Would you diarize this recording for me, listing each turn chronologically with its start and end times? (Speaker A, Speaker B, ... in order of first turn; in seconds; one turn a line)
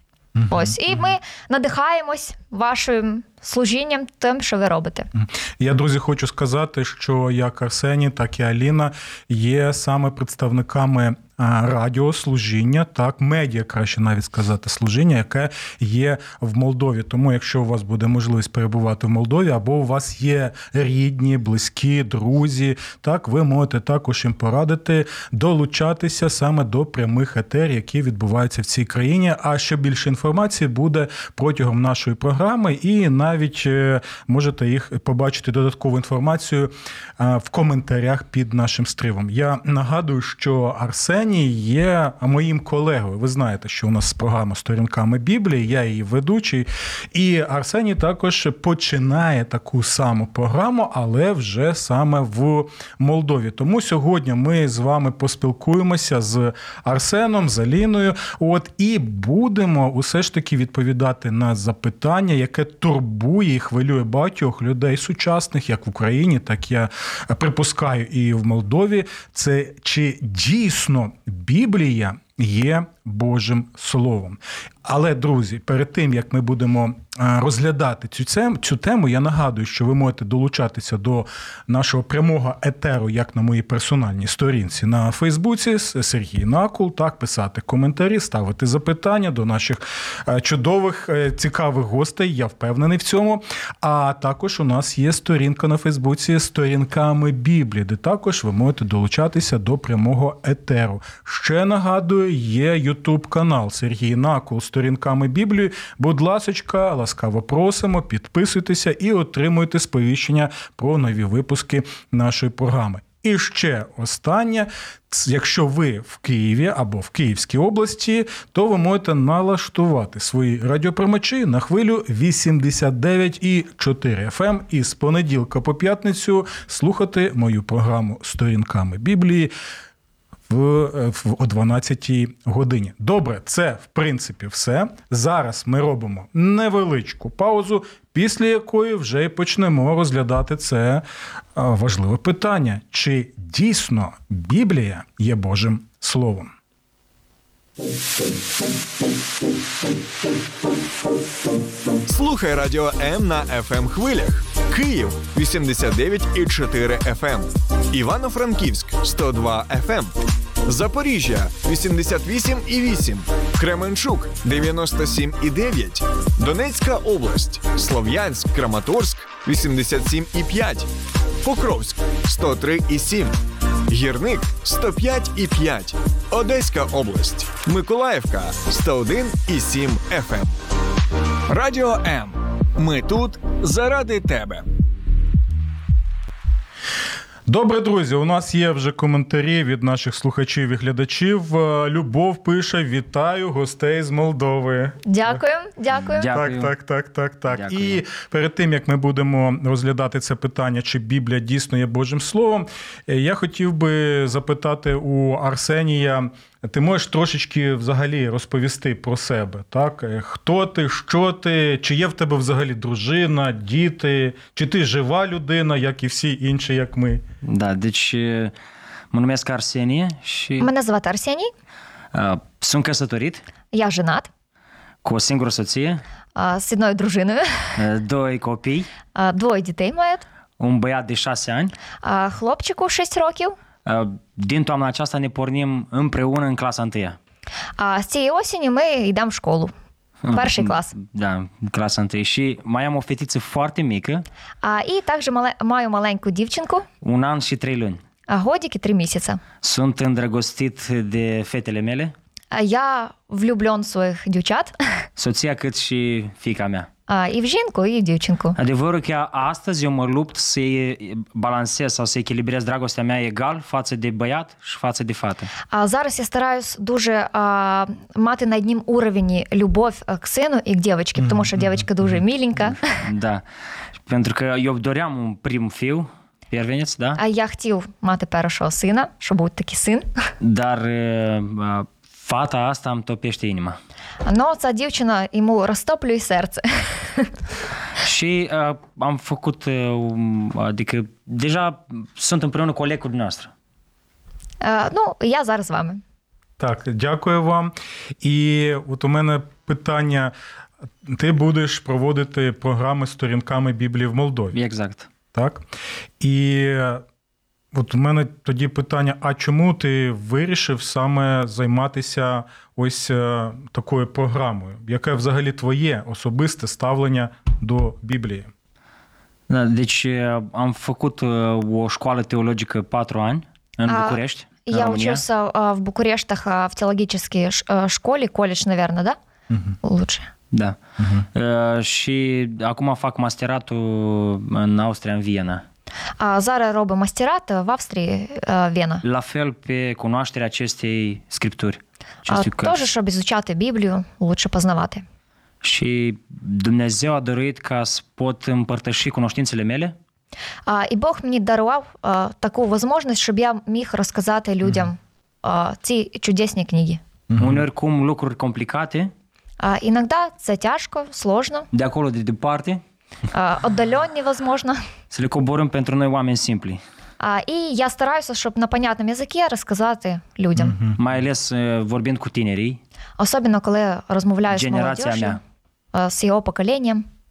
Speaker A: 0.3-0.9
Speaker B: 0.5-5.1
Speaker A: 5.2-129.5
Speaker A: 130.5-141.0
Speaker A: 141.5-146.5
Speaker C: 152.1-160.1
Speaker C: 160.6-170.9
Speaker C: 171.4-180.6
Speaker C: 181.5-184.7
Speaker A: 187.5-195.0
Speaker B: 195.0-196.3
Speaker D: 196.1-196.7
Speaker A: 196.2-217.2
Speaker D: 197.5-198.0
Speaker D: 217.4-218.5
Speaker D: 219.1-220.7
Speaker B: 220.6-221.5
Speaker D: 222.1-223.4
Speaker B: 223.7-224.3
Speaker D: 225.0-226.0
Speaker B: 226.3-227.8
Speaker D: 227.8-228.9
Speaker B: 229.1-230.2
Speaker D: 230.6-231.7
Speaker B: 232.0-233.6
Speaker D: 233.8-237.2
Speaker B: 237.8-239.7
Speaker D: 240.2-244.2
Speaker B: 240.3-240.9
Speaker B: 244.6-246.9
Speaker D: 247.0-248.0
Speaker B: 248.3-249.4
Speaker D: 249.6-252.1
Speaker B: 252.5-255.0
Speaker D: 255.2-256.9
Speaker B: 257.1-258.6
Speaker D: 258.6-265.5
Speaker B: 265.7-273.0
Speaker A: 271.2-271.9
Speaker D: 273.0-273.4
Speaker D: 274.0-277.2
Speaker B: 277.2-280.1
Speaker D: 280.4-283.8
Speaker B: 284.2-287.3
Speaker D: 288.0-293.5
Speaker B: 294.6-296.0
Speaker A: 296.6-300.3
Speaker A: 301.0-304.6
Speaker D: 304.5-305.1
Speaker A: 305.3-305.6
Speaker A: 306.2-307.0
Speaker A: 307.7-318.5
Speaker D: 319.5-325.2
Speaker B: 323.9-329.2
Speaker B: 329.8-330.3
Speaker D: 330.5-335.6
Speaker A: 331.0-331.2
Speaker B: 336.2-339.0
Speaker D: 339.0-342.8
Speaker B: 342.3-345.0
Speaker D: 345.6-349.9
Speaker B: 350.6-357.0
Speaker A: 357.3-357.6
Speaker D: 357.4-359.1
Speaker B: 359.6-361.7
Speaker D: 361.7-362.8
Speaker B: 363.3-364.8
Speaker D: 365.1-366.8
Speaker B: 367.2-370.8
Speaker A: 370.6-371.0
Speaker D: 371.0-372.8
Speaker B: 373.2-375.4
Speaker D: 374.5-375.4
Speaker B: 375.9-377.1